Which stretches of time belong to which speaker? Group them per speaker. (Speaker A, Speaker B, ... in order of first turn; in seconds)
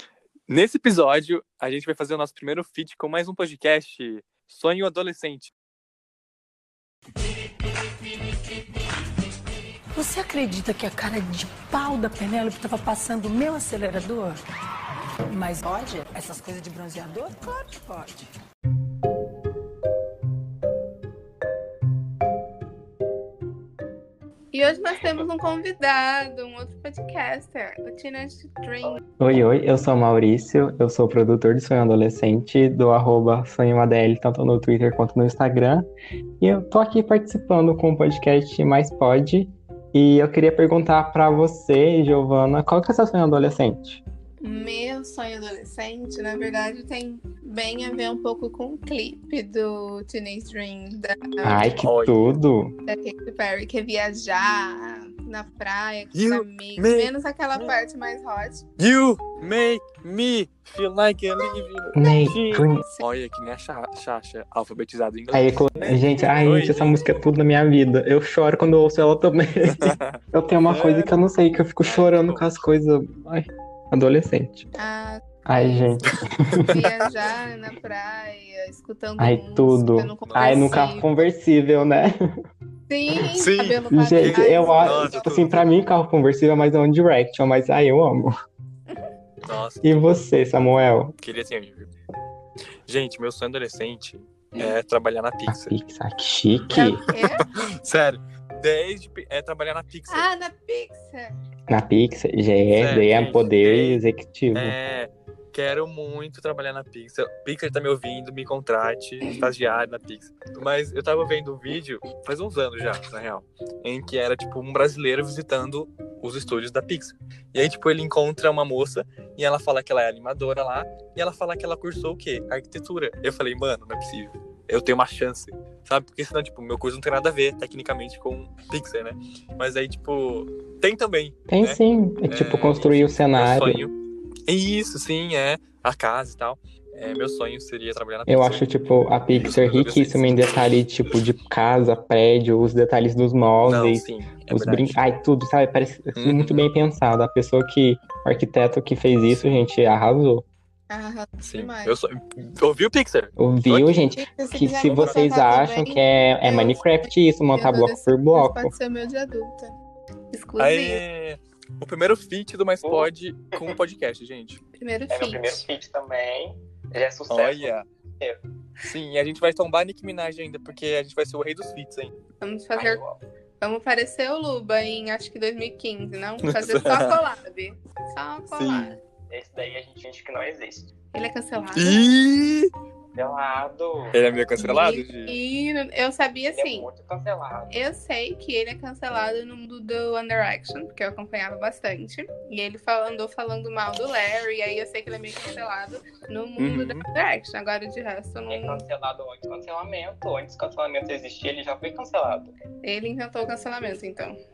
Speaker A: 0.5-5.5, 51.8-52.4, 56.1-57.7, 58.8-67.0, 69.7-71.2, 71.8-72.6, 76.6-76.8, 80.3-81.0, 83.3-85.6, 89.4-90.0, 91.2-91.9, 92.9-95.7, 97.8-100.3, 102.7-104.0, 104.5-133.9, 134.5-138.7, 139.3-140.8, 143.6-145.0, 146.2-146.7, 151.4-154.0, 160.6-164.6, 167.3-167.8, 168.8-172.1, 176.4-177.2, 178.5-179.0, 181.8-182.7, 184.1-185.3, 196.6-197.0
Speaker B: 9.9-14.4, 15.3-18.3
Speaker C: 24.5-29.0, 44.4-51.7, 52.9-58.6, 62.0-63.0, 74.8-76.0, 76.7-81.1, 82.9-85.4, 96.7-97.5, 100.1-101.3, 150.9-152.0, 154.1-159.7, 160.3-161.0, 164.8-165.6, 172.4-173.0, 173.6-179.0, 181.1-182.0, 184.6-186.9, 187.7-198.8, 202.8-204.4
Speaker D: 29.2-35.9, 36.4-44.0, 51.4-52.7, 61.9-62.8, 65.3-74.7, 75.5-76.8, 79.2-82.2, 83.9-88.3, 89.8-91.2, 95.5-97.0, 101.7-104.8, 131.5-133.8, 138.3-150.4, 153.4-158.7
Speaker E: 154.9-155.2, 162.8-163.8, 165.1-168.4, 172.7-173.2, 179.3-180.9, 183.2-184.2, 186.5-187.8, 198.5-202.5